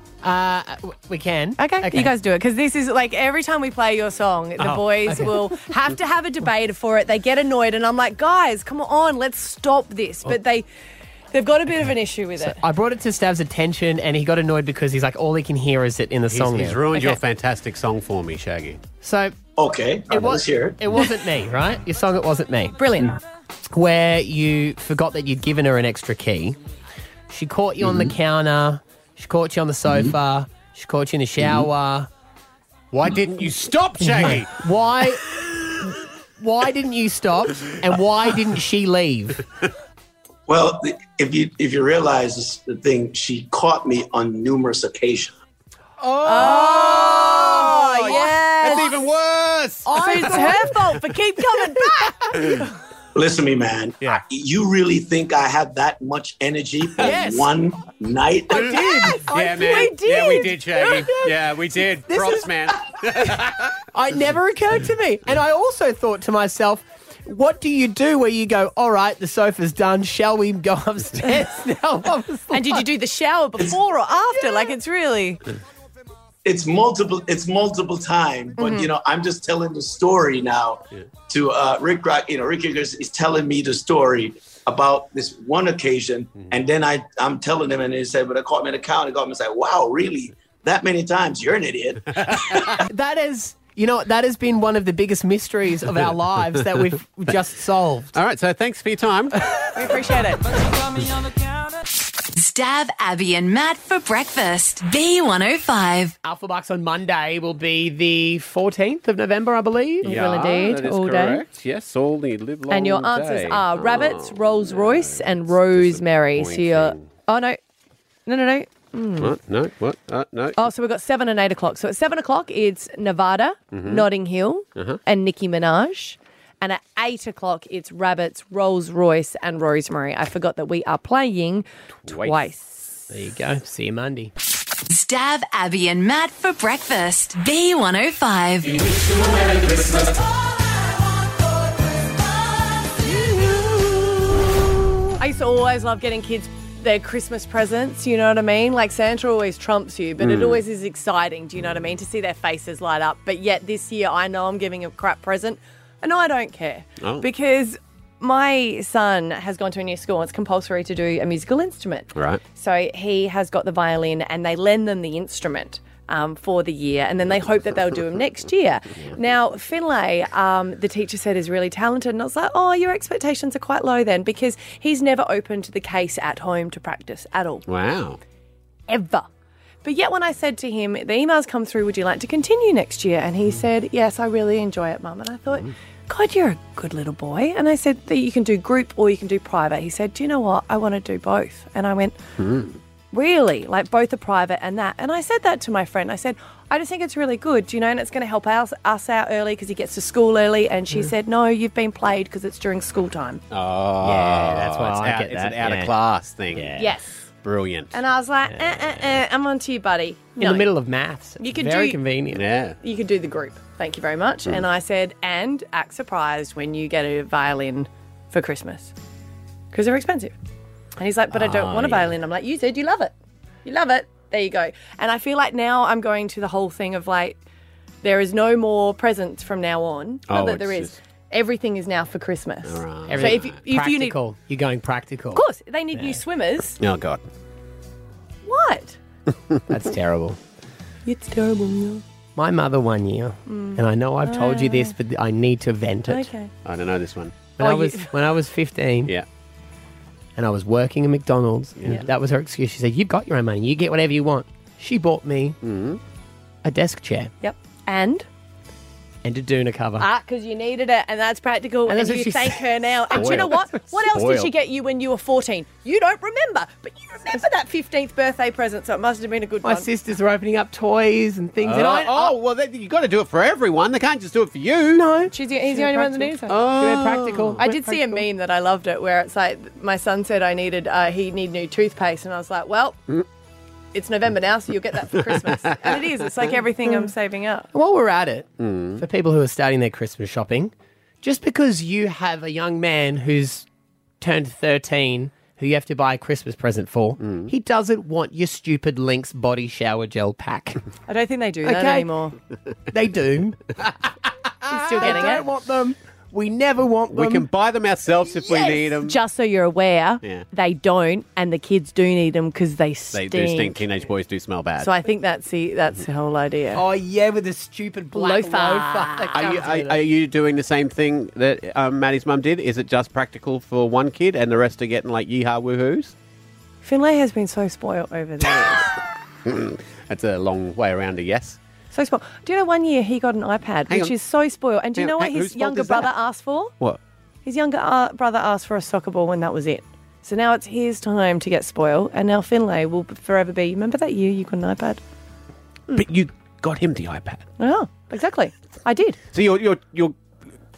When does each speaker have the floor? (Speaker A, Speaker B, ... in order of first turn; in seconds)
Speaker A: 0.2-2.1, 4.6-5.4, 12.4-17.1, 19.0-19.4, 20.1-22.8, 23.7-26.6, 27.3-32.1, 34.0-35.2, 35.8-39.4, 46.2-48.4, 49.9-50.6, 57.0-57.5, 58.5-59.6, 62.1-62.7, 63.9-72.9, 92.8-98.2, 106.2-110.1, 133.1-134.3, 204.0-205.9, 206.5-206.9, 208.5-209.2, 210.4-212.4, 221.3-222.1, 233.1-235.4, 239.7-240.4, 242.4-246.3, 247.6-249.1, 250.4-255.6, 256.6-257.3, 259.2-260.1, 261.9-263.5, 269.6-272.3, 274.9-278.2, 287.7-293.7, 294.2-300.8, 301.6-302.1, 302.9-303.9, 304.9-307.5, 316.7-320.0
Speaker B: 1.6-10.7, 11.3-12.6, 22.8-23.2, 46.2-49.0, 49.9-52.7, 58.6-61.1, 72.5-75.4, 78.6-78.9, 99.8-100.7, 110.0-111.4, 112.7-117.6, 118.3-119.3, 120.6-133.1, 145.2-177.7, 178.9-179.3, 179.8-192.2, 193.1-203.4, 206.8-207.2, 207.9-210.7, 211.4-212.0, 212.8-218.9, 219.7-220.3, 221.0-223.1, 223.7-227.4, 228.0-234.2, 235.3-236.8, 238.4-239.0, 241.1-242.0, 243.5-244.9, 246.1-246.5, 247.6-248.1, 257.4-258.3, 260.0-269.9, 275.3-276.6, 277.6-283.0, 283.9-287.7, 301.1-302.4, 304.7-305.5, 308.6-313.8, 314.8-316.8, 318.1-319.6, 326.8-328.9, 331.9-336.7, 337.4-345.0, 347.6-349.2
Speaker C: 16.3-18.8, 32.9-34.5, 46.4-50.7, 58.5-63.7, 92.2-92.6, 98.1-99.4, 110.0-117.0, 119.2-120.6, 123.7-124.1, 132.1-132.4, 150.2-150.6, 157.0-157.3, 162.2-162.4, 177.7-178.2, 192.4-192.8, 203.5-206.8, 207.4-207.9, 212.3-212.8, 230.3-231.0, 232.6-233.6, 236.8-237.2, 246.7-247.4, 255.6-256.0, 263.1-264.5, 271.6-275.1, 276.5-277.6, 285.1-286.5, 288.6-289.0, 297.2-297.5, 307.1-309.2, 313.1-314.9, 319.4-326.1, 329.4-331.6, 333.9-334.1, 334.9-336.1, 345.9-347.4, 349.3-350.2
Speaker D: 19.6-20.8, 40.5-45.3, 53.1-58.7, 76.5-92.4
Speaker E: 102.3-106.2, 134.9-139.0